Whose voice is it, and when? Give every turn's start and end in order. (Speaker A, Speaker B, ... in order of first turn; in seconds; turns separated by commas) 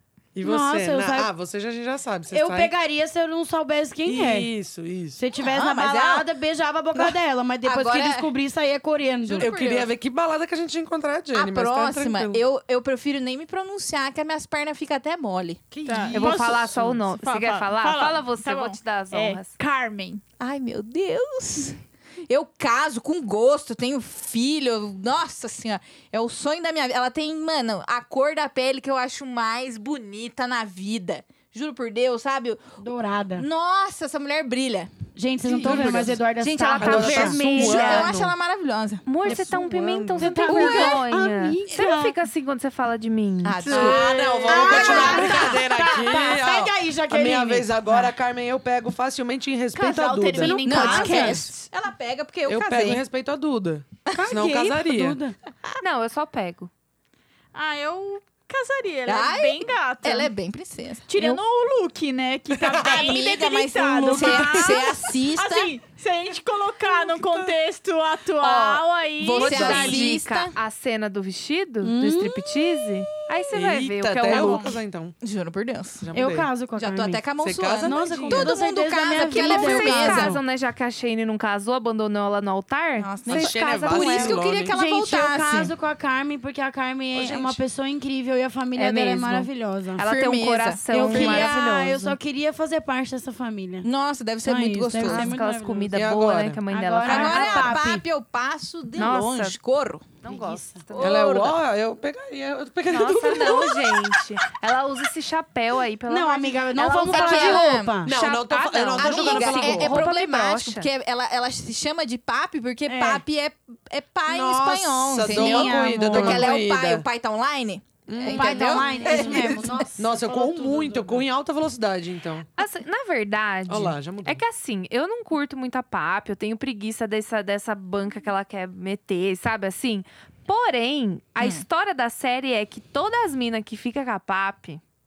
Speaker A: 0.3-2.7, Speaker B: 0.4-1.3, Speaker B: 2.3-4.5, Speaker A: 4.0-5.2, Speaker B: 5.2-9.5, Speaker C: 5.4-6.2, Speaker C: 7.0-8.3, Speaker C: 9.3-9.9, Speaker A: 9.3-12.4, Speaker C: 11.3-15.6, Speaker A: 15.7-17.0, Speaker D: 15.8-20.2, Speaker E: 16.1-19.5, Speaker C: 20.4-32.6, Speaker B: 32.8-33.5, Speaker C: 33.4-34.9, Speaker B: 35.1-37.4, Speaker A: 35.4-36.2, Speaker E: 35.6-38.1, Speaker A: 36.8-38.3, Speaker C: 37.1-39.0, Speaker E: 39.0-43.8, Speaker A: 39.2-41.0, Speaker B: 40.2-42.1, Speaker C: 43.4-46.1, Speaker D: 43.6-45.2, Speaker A: 43.6-51.2, Speaker B: 44.4-47.7, Speaker D: 49.7-51.6, Speaker B: 50.3-51.5, Speaker C: 50.6-53.0, Speaker A: 52.5-55.2, Speaker B: 54.1-55.4, Speaker E: 55.8-56.7, Speaker D: 57.5-60.3, Speaker C: 59.0-61.4, Speaker D: 61.1-70.2, Speaker A: 62.6-63.1, Speaker C: 62.8-65.7, Speaker B: 64.1-64.6, Speaker E: 68.4-74.8, Speaker C: 69.2-70.5, Speaker B: 71.8-72.9, Speaker A: 73.5-75.2, Speaker D: 74.3-74.8, Speaker C: 75.2-76.1, Speaker A: 76.0-76.5, Speaker B: 76.1-77.2, Speaker C: 76.7-80.4, Speaker A: 77.4-78.5, Speaker B: 77.8-80.4, Speaker E: 79.3-84.4, Speaker C: 83.0-85.7, Speaker A: 83.2-84.7, Speaker B: 84.7-90.0, Speaker A: 87.1-87.6, Speaker E: 88.7-92.2, Speaker C: 90.0-91.6, Speaker B: 90.9-93.9, Speaker C: 93.8-95.3, Speaker B: 94.4-96.0, Speaker E: 95.0-97.8, Speaker A: 95.9-96.6, Speaker B: 96.7-98.0, Speaker C: 97.0-100.0, Speaker E: 99.0-99.6, Speaker E: 100.2-101.2, Speaker B: 100.2-100.9, Speaker C: 100.9-101.6, Speaker A: 101.0-104.2, Speaker E: 102.8-110.9, Speaker B: 106.1-108.1, Speaker C: 107.0-108.0, Speaker A: 108.0-110.1, Speaker C: 109.0-119.8, Speaker B: 112.9-113.2, Speaker A: 114.3-117.0, Speaker B: 115.2-116.6, Speaker A: 118.1-122.5, Speaker B: 118.2-121.2, Speaker E: 122.6-134.8, Speaker A: 123.7-124.4